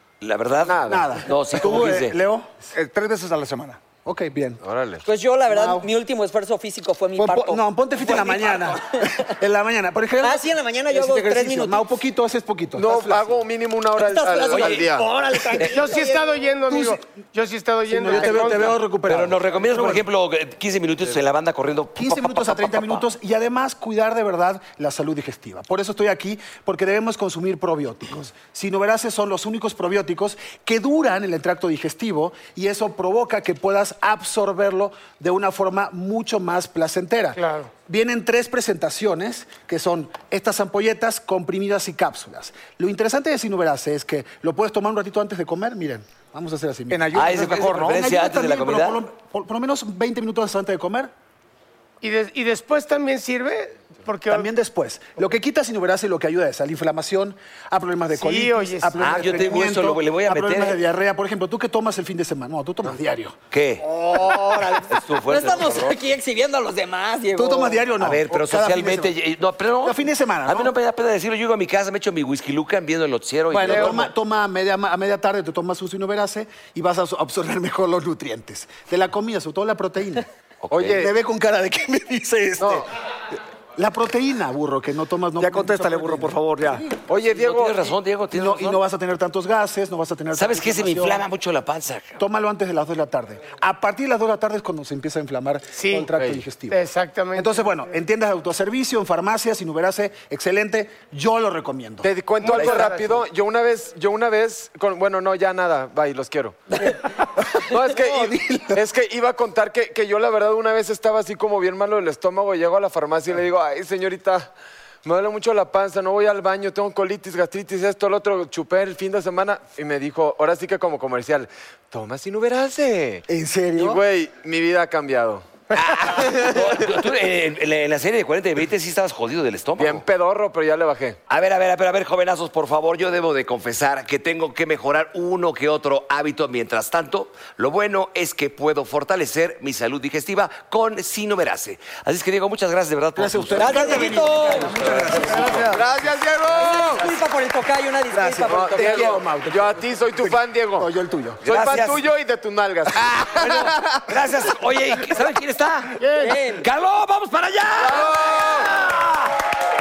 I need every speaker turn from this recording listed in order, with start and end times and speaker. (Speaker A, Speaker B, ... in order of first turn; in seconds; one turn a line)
Speaker A: 0.2-2.2
Speaker B: 0.7-1.1
Speaker C: 0.8-2.5
Speaker D: 2.7-3.8
Speaker C: 4.0-4.6
Speaker B: 4.6-5.0
Speaker E: 5.0-9.1
Speaker D: 5.5-5.8
Speaker C: 7.2-13.4
Speaker E: 10.2-11.8
Speaker B: 12.8-15.1
Speaker E: 14.0-16.3
Speaker A: 14.5-14.9
Speaker F: 15.6-18.8
Speaker C: 17.9-20.0
Speaker A: 19.1-23.1
Speaker C: 22.0-51.1
Speaker F: 37.4-37.7
Speaker D: 46.9-48.0
Speaker A: 47.1-49.0
Speaker F: 52.0-54.5
Speaker C: 54.3-63.4
Speaker F: 58.1-59.0
Speaker A: 59.0-60.8
Speaker A: 63.5-63.9
Speaker E: 63.8-67.8
Speaker A: 64.9-66.0
Speaker C: 67.3-69.1
Speaker A: 68.0-74.1
Speaker C: 69.8-70.7
Speaker C: 73.5-80.2
Speaker A: 80.7-81.0
Speaker B: 80.7-81.1
Speaker C: 80.8-82.9
Speaker C: 83.8-86.9
Speaker D: 85.4-86.8
Speaker B: 87.1-87.9
Speaker A: 87.2-88.8
Speaker C: 88.3-91.2
Speaker A: 90.3-92.2
Speaker C: 92.2-96.8
Speaker F: 95.7-96.1
Speaker F: 96.7-97.9
Speaker C: 97.3-102.1
Speaker B: 102.0-106.9
Speaker F: 102.4-103.2
Speaker C: 107.6-108.8
Speaker B: 107.6-114.5
Speaker B: 115.0-125.5
Speaker C: 123.3-124.0
Speaker A: 125.7-130.0
Speaker B: 126.0-126.9
Speaker B: 129.8-131.2
Speaker A: 131.3-144.3
Speaker C: 143.2-146.0
Speaker E: 143.6-145.6
Speaker D: 145.1-145.6
Speaker B: 145.6-147.1
Speaker C: 146.6-147.1
Speaker E: 146.6-149.2
Speaker C: 148.1-151.4
Speaker B: 148.5-150.9
Speaker A: 151.4-152.0
Speaker B: 151.4-154.0
Speaker A: 153.3-159.3
Speaker F: 156.0-156.4
Speaker E: 156.2-156.7
Speaker B: 157.8-158.8